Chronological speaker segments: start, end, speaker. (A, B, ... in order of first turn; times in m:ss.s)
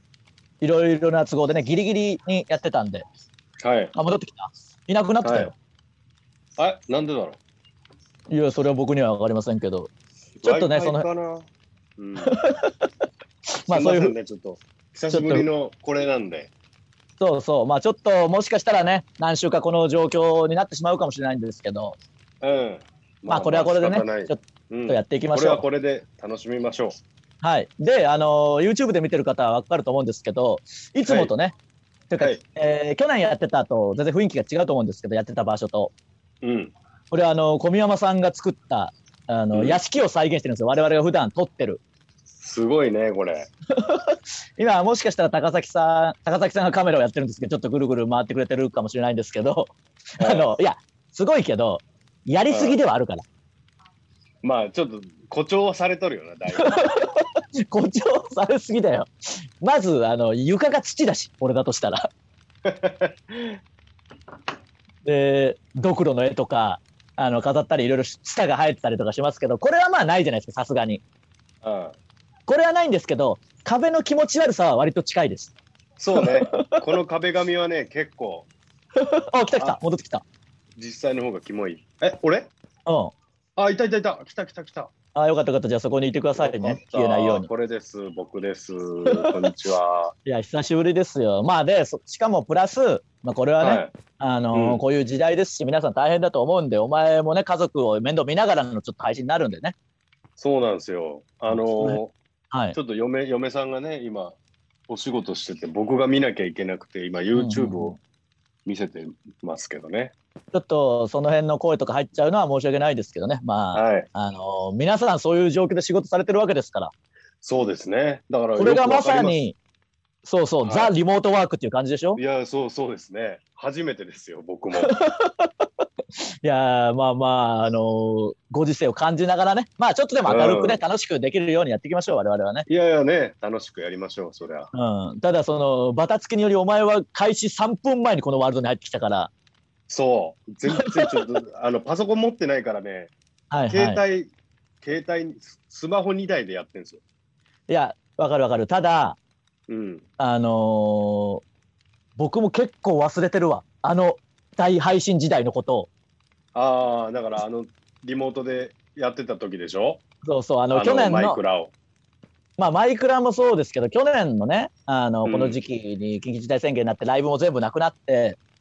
0:00.6-0:03.0 A
0:03.6-0:03.9 B
0:03.9-0:05.5 A
0:05.2-0:05.5 B
0:06.6-0:07.4 B
0:08.3-0:09.9 A
0:10.4-0:12.4 B
0:10.4-0:11.1 A
0:12.2-0:12.9 A
0:13.5-0:14.1 A
0:13.7-0:16.5 B
0:15.1-0:15.4 A
0:17.2-0:22.0 A
0:22.4-0:27.0 B
0:23.3-0:25.6 A
0:27.4-0:31.5 A
0:31.0-0:31.3 B
0:32.1-0:35.9 A
0:36.4-0:36.7 B
0:37.1-0:41.8 A
0:39.5-0:39.8 B
0:42.4-0:43.5 B
0:43.7-0:53.2 A
0:50.2-0:50.5 B
0:52.5-0:52.8 B
0:54.4-0:56.9 B
0:56.5-1:02.1 A
1:02.6-1:03.6 B
1:05.0-1:11.0 A
1:11.6-1:12.0 B
1:12.5-1:15.5 A
1:16.0-1:18.5 B
1:16.1-1:16.8 A
1:19.0-1:20.2 A
1:20.8-1:22.5 B
1:22.8-1:23.1 A
1:23.6-1:24.9 B
1:25.1-1:27.5 A
1:26.4-1:30.1 B
1:29.1-1:29.5 A
1:30.2-1:39.7 A
1:33.6-1:33.9 B
1:34.5-1:34.8 B
1:40.4-1:42.1 B
1:41.5-1:42.0 A
1:42.5-1:42.8 A
1:42.7-1:44.4 B
1:44.9-1:48.0 B
1:47.3-1:48.0 A
1:48.6-1:50.1 B
1:50.5-1:56.9 A
1:53.7-1:54.1 B
1:57.4-1:59.4 B
1:58.5-1:59.6 A
2:00.2-2:02.2 A
2:00.6-2:00.9 B
2:02.2-2:04.9 B
2:04.8-2:12.7 A
2:10.2-2:10.8 B
2:12.7-2:14.7 B
2:14.7-2:19.3 A
2:19.9-2:23.1 B
2:20.7-2:21.2 A
2:23.5-2:24.0 A
2:23.7-2:27.0 B
2:27.7-2:29.2 A
2:29.7-2:30.0 B
2:30.2-2:31.4 A
2:32.2-2:35.9 A
2:36.5-2:40.0 B
2:40.2-2:41.4 A
2:40.7-2:41.7 B
2:42.6-2:48.4 A
2:45.2-2:45.6 B